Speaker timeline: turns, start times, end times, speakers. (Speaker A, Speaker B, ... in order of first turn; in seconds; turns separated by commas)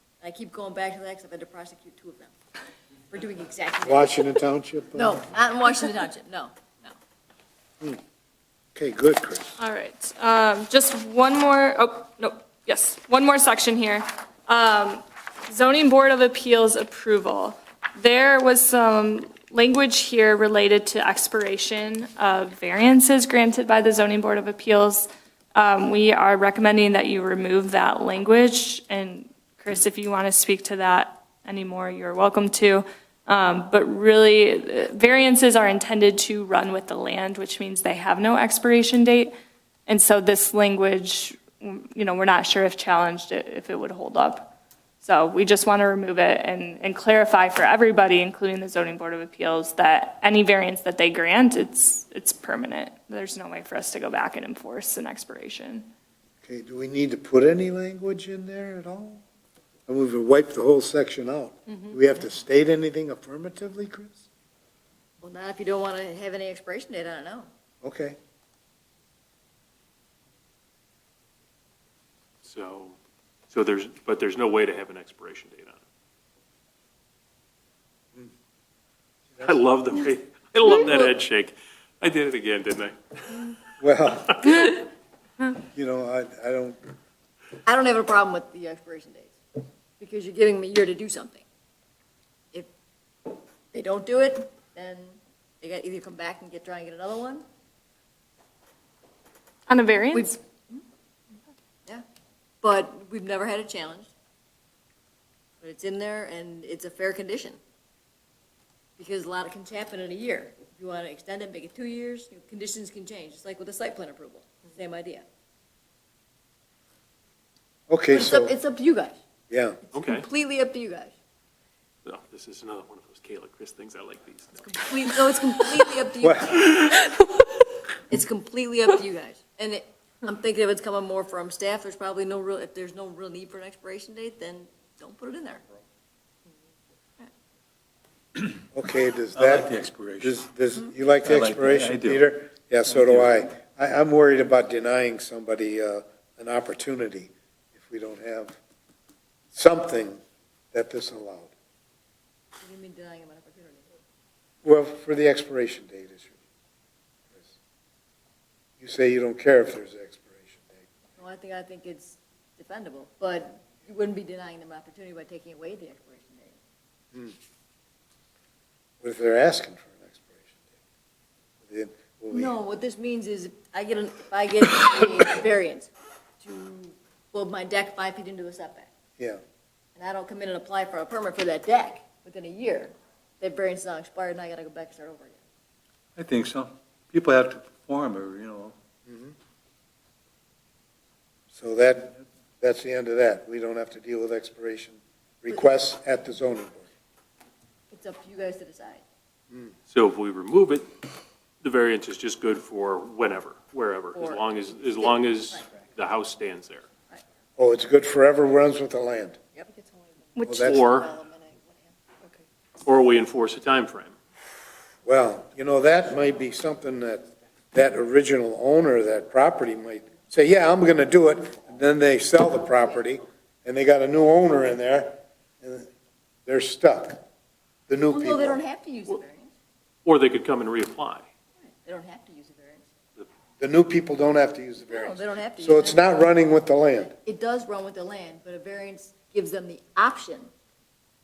Speaker A: 0.2-2.3, Speaker A: 3.1-4.3, Speaker B: 3.8-5.2, Speaker A: 4.9-6.9, Speaker B: 8.7-9.6, Speaker C: 9.6-39.3, Speaker C: 39.9-55.9, Speaker B: 56.4-59.2, Speaker B: 59.9-64.2, Speaker A: 65.2-67.5, Speaker B: 67.8-68.2, Speaker D: 72.4-73.0, Speaker D: 73.5-75.8, Speaker D: 79.4-83.5, Speaker A: 80.7-81.1, Speaker B: 83.8-84.5, Speaker D: 84.2-84.6, Speaker B: 85.7-86.8, Speaker A: 87.7-89.4, Speaker A: 90.0-91.4, Speaker A: 93.3-97.4, Speaker C: 99.7-100.3, Speaker A: 100.1-100.8, Speaker A: 102.6-104.1, Speaker A: 105.6-107.6, Speaker A: 109.0-115.2, Speaker B: 117.9-118.5, Speaker A: 118.1-119.2, Speaker B: 119.5-119.8, Speaker D: 119.9-120.3, Speaker A: 119.9-121.1, Speaker D: 122.0-125.3, Speaker A: 124.6-127.0, Speaker B: 126.2-126.7, Speaker C: 126.8-127.3, Speaker A: 128.1-135.6, Speaker B: 138.7-148.6, Speaker E: 139.3-140.4, Speaker E: 141.2-142.2, Speaker E: 142.8-143.4, Speaker B: 149.5-150.2, Speaker B: 150.7-151.5, Speaker A: 152.6-153.9, Speaker B: 154.6-156.4, Speaker B: 158.8-160.9, Speaker A: 161.2-166.6, Speaker B: 169.0-170.6, Speaker B: 171.7-172.6, Speaker A: 172.3-175.9, Speaker A: 176.4-178.9, Speaker A: 179.9-185.4, Speaker E: 186.2-188.8, Speaker B: 189.1-189.3, Speaker B: 191.5-196.9, Speaker A: 197.9-199.0, Speaker D: 199.9-200.9, Speaker D: 201.6-206.9, Speaker A: 204.1-205.7, Speaker B: 207.6-209.4, Speaker A: 209.5-212.0, Speaker C: 210.3-210.9, Speaker B: 210.5-210.8, Speaker D: 210.6-211.1, Speaker D: 212.8-214.1, Speaker B: 215.0-225.9, Speaker B: 226.4-227.2, Speaker B: 227.9-228.6, Speaker A: 228.1-229.5, Speaker D: 230.0-231.2, Speaker A: 231.6-232.8, Speaker B: 233.6-237.1, Speaker A: 234.9-236.1, Speaker A: 237.0-240.5